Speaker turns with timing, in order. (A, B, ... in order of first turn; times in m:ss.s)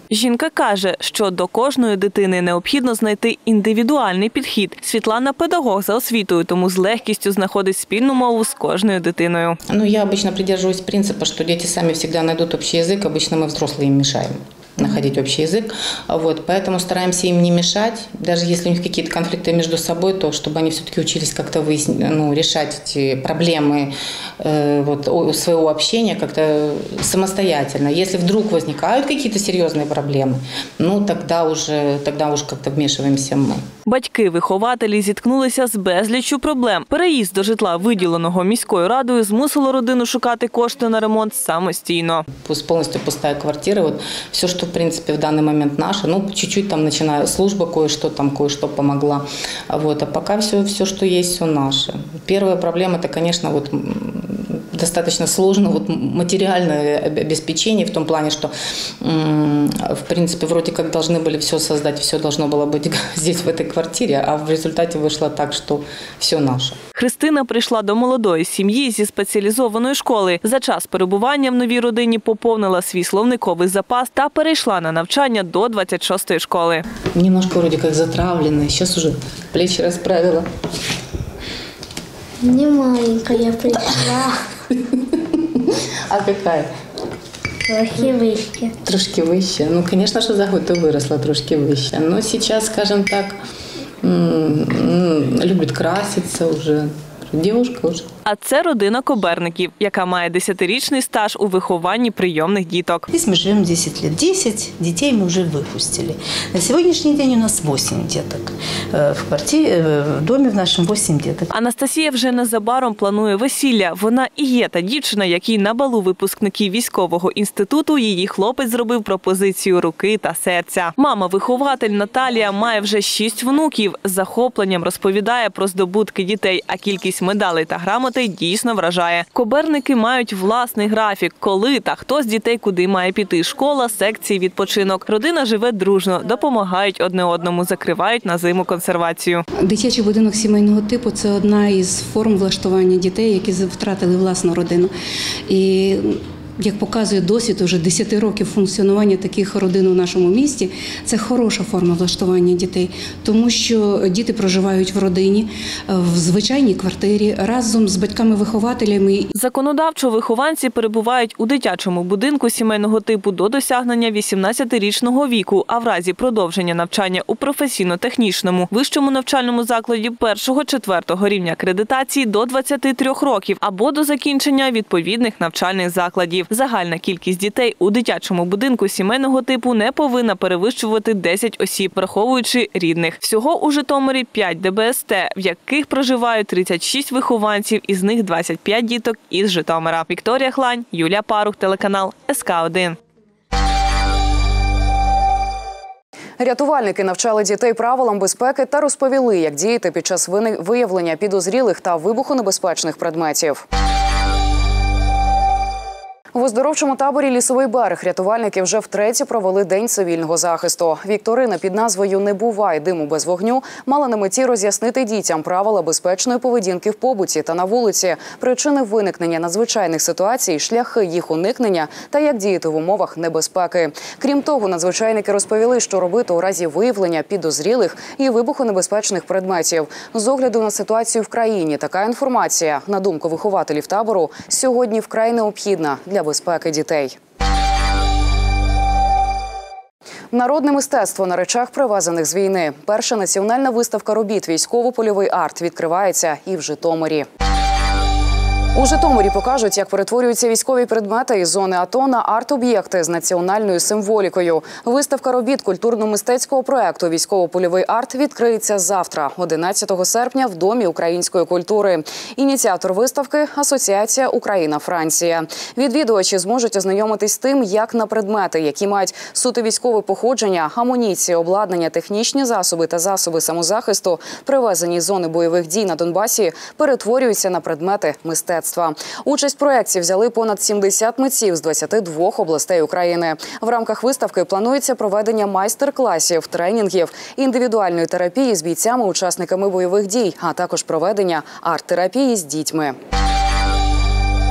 0:00.1-0:09.6 A
0:09.7-0:33.6 B
0:33.9-0:42.3 A
0:42.4-0:58.5 B
0:59.0-1:06.8 B
1:07.0-1:16.8 A
1:17.1-1:20.4 B
1:22.4-1:24.3 C
1:26.1-1:26.7 B
1:27.7-1:28.8 C
1:28.8-1:33.3 B
1:34.0-1:38.0 B
1:38.2-1:43.1 A
1:43.1-1:51.5 D
1:51.5-2:19.4 A
2:19.6-2:24.9 E
2:25.5-2:39.3 E
2:39.3-3:13.0 A
3:16.4-3:23.6 F
3:26.3-3:57.2 F
4:00.3-4:07.3 F
4:08.8-4:53.0 F